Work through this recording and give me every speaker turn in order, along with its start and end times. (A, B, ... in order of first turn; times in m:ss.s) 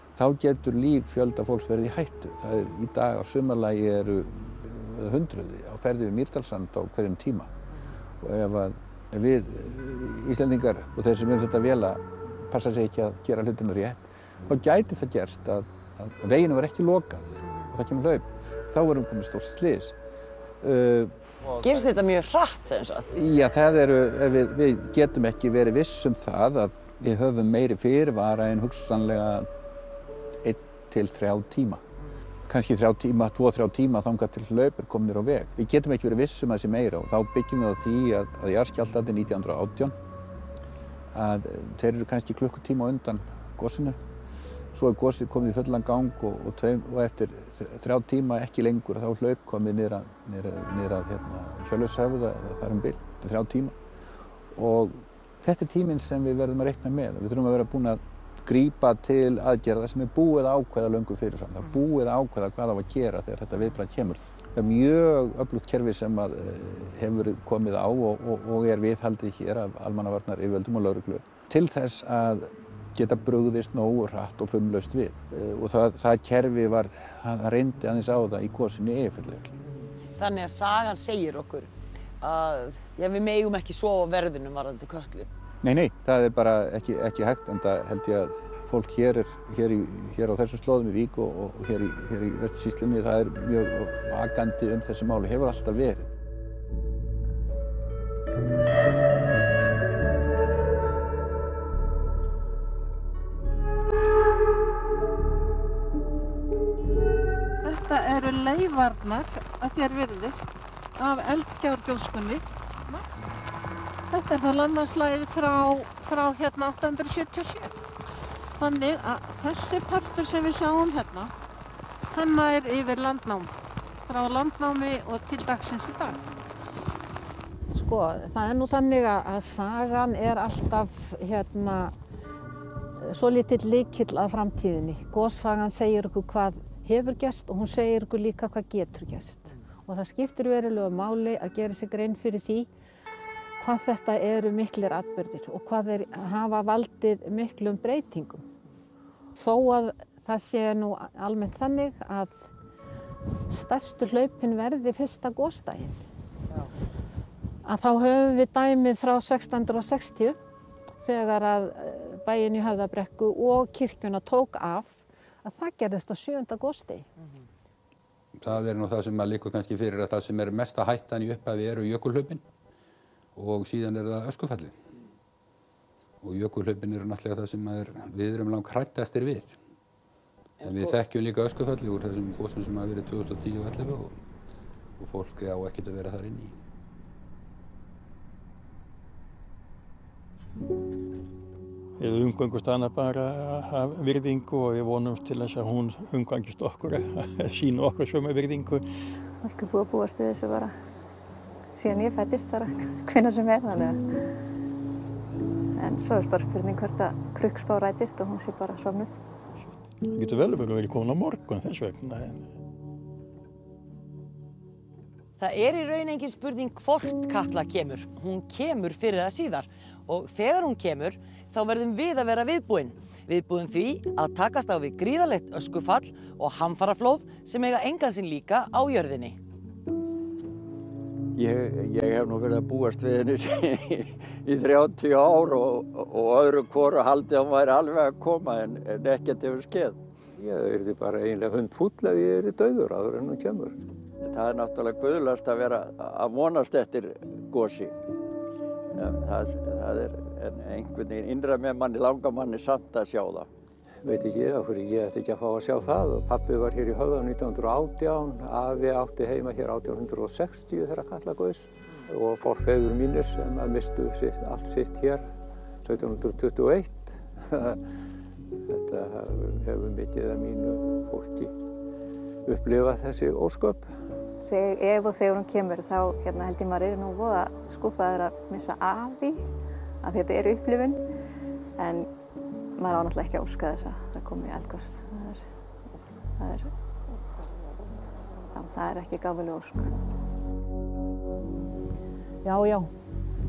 0:00.2-0:07.5 A
0:08.2-0:19.9 A
0:20.6-0:21.1 A
0:21.6-0:23.2 B
0:23.1-0:29.5 A
0:30.4-0:31.8 A
0:32.5-0:39.9 A
0:41.1-0:44.0 A
0:44.7-0:53.8 A
0:54.5-1:19.6 A
1:20.1-1:21.7 B
1:22.2-1:25.3 B
1:25.6-1:36.1 A
1:47.6-1:53.1 C
1:54.1-1:57.8 C
1:58.6-2:01.3 C
2:02.1-2:03.5 C
2:04.0-2:06.2 C
2:07.7-2:11.9 C
2:13.0-2:22.7 C
2:23.6-2:28.4 C
2:29.4-2:32.5 C
2:33.5-2:36.0 C
2:37.6-2:40.4 C
2:41.0-2:47.0 C
2:48.4-2:52.4 D
2:53.4-2:54.8 D
2:56.2-2:59.6 D
3:00.6-3:00.9 B
3:00.6-3:04.1 D
3:05.0-3:06.5 D
3:12.0-3:18.8 E
3:19.4-3:20.7 F
3:21.8-3:24.0 F
3:25.8-3:29.1 F
3:30.0-3:32.4 E
3:35.4-3:49.4 B
3:51.3-4:00.0 G
4:00.4-4:03.8 H
4:04.2-4:07.9 G
4:08.9-4:13.5 G
4:14.0-4:25.3 H
4:25.8-4:27.8 H
4:28.7-4:31.5 H
4:32.4-4:33.9 H
4:34.4-4:39.4 F
4:40.0-4:41.0 F
4:41.8-4:42.1 F
4:42.8-4:45.4 F
4:46.4-4:46.7 F
4:48.5-4:49.9 F
4:52.4-4:52.9 C